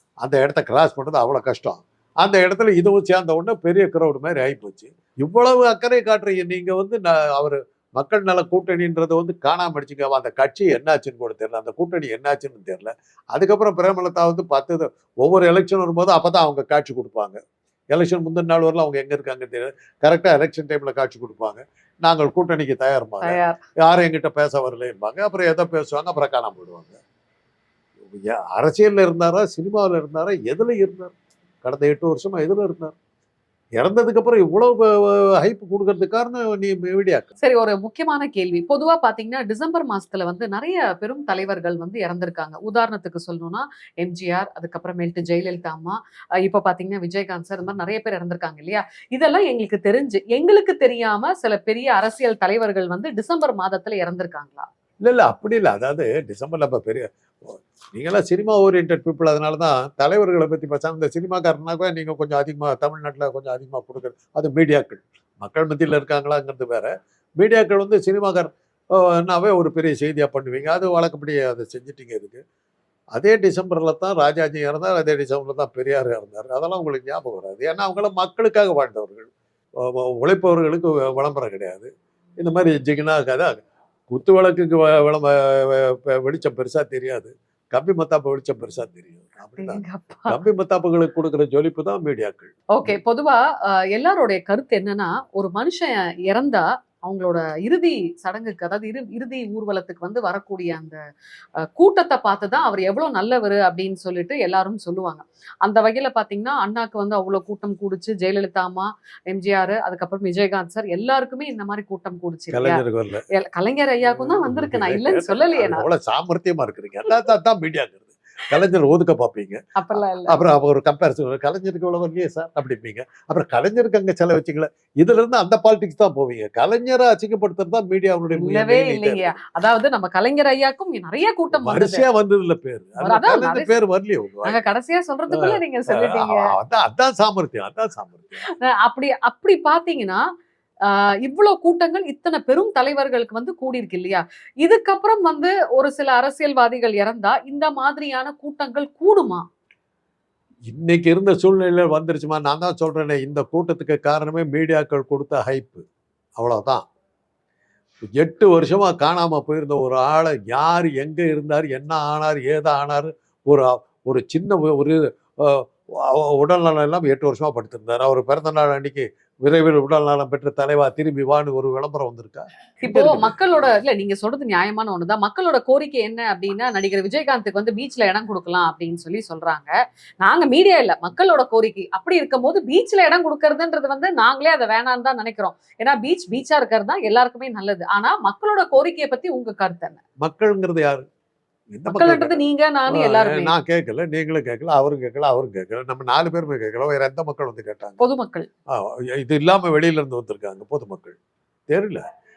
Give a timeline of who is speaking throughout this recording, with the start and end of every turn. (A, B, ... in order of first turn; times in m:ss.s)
0:00.2-0:17.4 A
0:17.9-0:27.0 A
0:23.2-0:23.6 B
0:28.1-0:33.0 A
0:33.8-0:37.3 A
0:37.4-0:54.7 B
0:55.0-1:12.4 A
1:13.1-1:23.6 A
1:24.1-1:33.0 A
1:29.6-1:30.4 B
1:32.7-1:41.0 B
1:41.6-1:55.8 B
1:52.5-1:53.3 A
1:54.1-2:09.4 A
1:59.8-2:00.4 B
2:08.3-2:12.1 B
2:11.5-2:14.6 A
2:13.0-2:13.7 B
2:14.4-2:16.5 B
2:15.3-2:18.5 A
2:18.5-2:20.3 B
2:20.8-2:29.5 B
2:30.7-2:35.9 A
2:36.4-2:36.8 A
2:38.1-2:53.4 A
2:52.8-3:10.0 B
3:10.2-3:11.0 A
3:11.7-3:18.0 A
3:11.9-3:13.5 B
3:18.0-3:18.5 B
3:18.7-3:21.2 A
3:21.7-3:22.0 A